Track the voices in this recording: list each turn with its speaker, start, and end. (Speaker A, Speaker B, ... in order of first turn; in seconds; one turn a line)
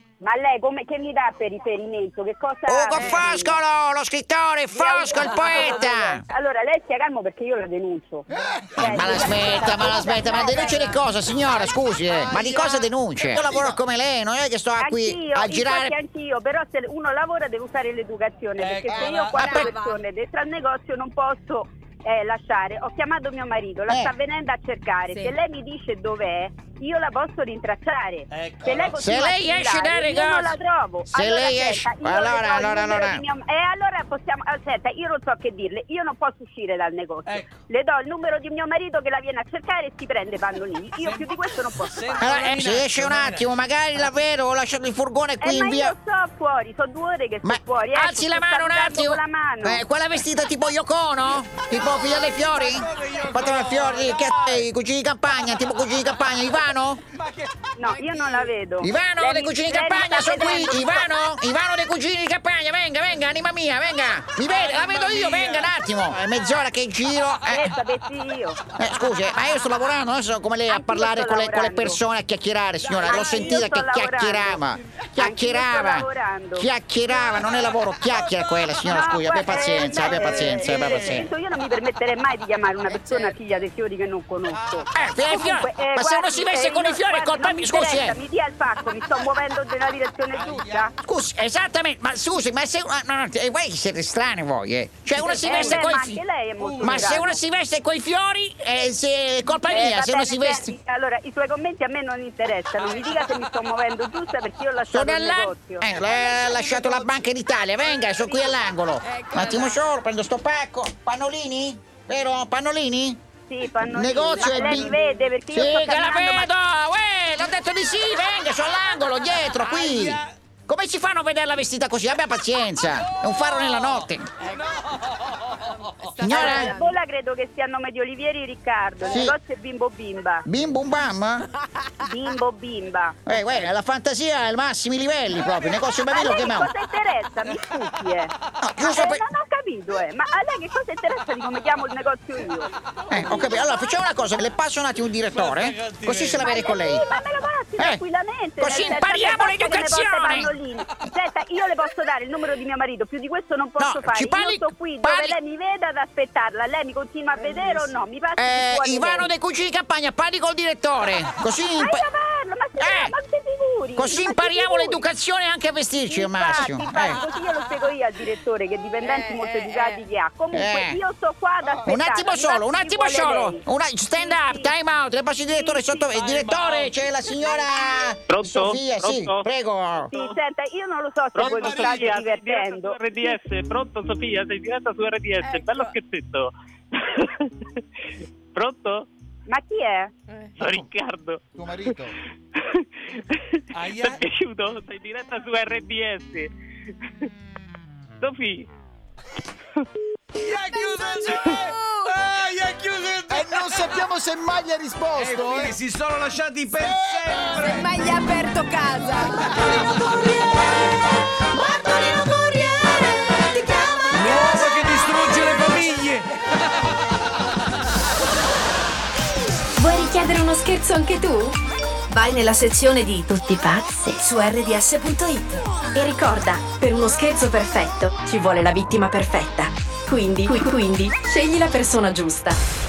Speaker A: 0.2-3.6
Speaker B: 2.7-6.2
Speaker A: 4.7-11.0
Speaker C: 5.4-5.7
Speaker B: 8.8-15.9
Speaker A: 14.8-42.4
Speaker D: 18.6-19.5
Speaker C: 19.0-20.0
Speaker B: 19.4-19.7
Speaker C: 25.1-25.4
Speaker D: 28.3-29.0
Speaker B: 29.0-30.6
Speaker B: 31.1-33.2
Speaker D: 37.2-37.6
Speaker D: 41.0-43.5
Speaker B: 42.2-45.9
Speaker A: 45.4-49.8
Speaker B: 47.4-57.0
Speaker D: 51.7-54.6
Speaker D: 57.1-57.7
Speaker A: 57.8-61.1
Speaker C: 57.8-58.5
Speaker B: 58.8-67.7
Speaker D: 64.5-66.4
Speaker A: 67.5-68.6
Speaker B: 68.8-81.3
Speaker A: 70.7-72.0
Speaker D: 72.8-73.6
Speaker A: 73.0-74.6
Speaker A: 75.2-76.7
Speaker D: 77.3-78.7
Speaker A: 78.8-90.9
Speaker D: 79.5-81.2
Speaker D: 82.9-83.3
Speaker D: 84.5-84.9
Speaker B: 84.9-88.2
Speaker D: 90.3-90.9
Speaker B: 91.0-96.2
Speaker A: 95.2-97.4
Speaker D: 95.3-95.9
Speaker D: 96.6-97.2
Speaker B: 96.8-100.7
Speaker A: 99.7-105.9
Speaker D: 102.8-103.5
Speaker B: 104.9-113.2
Speaker D: 106.1-107.0
Speaker C: 109.0-109.8
Speaker A: 113.5-116.5
Speaker B: 113.8-114.9
Speaker C: 114.4-115.3
Speaker B: 115.5-124.3
Speaker D: 119.5-120.3
Speaker D: 123.0-126.2
Speaker C: 126.0-126.9
Speaker B: 126.2-126.7
Speaker A: 126.2-130.4
Speaker B: 129.0-129.3
Speaker B: 130.4-131.4
Speaker A: 132.0-133.2
Speaker B: 133.2-136.7
Speaker A: 136.1-142.7
Speaker B: 138.6-139.2
Speaker D: 143.1-143.5
Speaker B: 143.1-147.0
Speaker A: 143.2-143.9
Speaker D: 145.3-146.5
Speaker A: 146.4-159.3
Speaker B: 148.6-150.5
Speaker B: 153.8-155.3
Speaker B: 158.4-162.0
Speaker A: 161.8-165.1
Speaker B: 162.8-163.1
Speaker B: 163.9-167.2
Speaker A: 166.1-174.7
Speaker C: 169.0-170.0
Speaker B: 170.5-171.0
Speaker B: 171.8-180.1
Speaker A: 175.5-176.1
Speaker D: 176.2-176.7
Speaker E: 178.3-179.5
Speaker E: 180.1-180.4
Speaker A: 180.1-183.4
Speaker E: 181.3-187.5
Speaker F: 181.6-182.0
Speaker C: 185.4-185.9
Speaker E: 188.5-189.1
Speaker A: 189.5-190.1
Speaker C: 190.3-190.6
Speaker E: 190.6-196.5
Speaker F: 190.6-190.9
Speaker F: 191.5-192.1
Speaker D: 193.7-194.2
Speaker E: 198.2-198.7
Speaker D: 200.3-204.1
Speaker F: 203.3-205.8
Speaker D: 205.2-207.9
Speaker C: 207.6-209.6
Speaker D: 214.0-216.3
Speaker G: 219.8-221.6
Speaker G: 222.1-232.6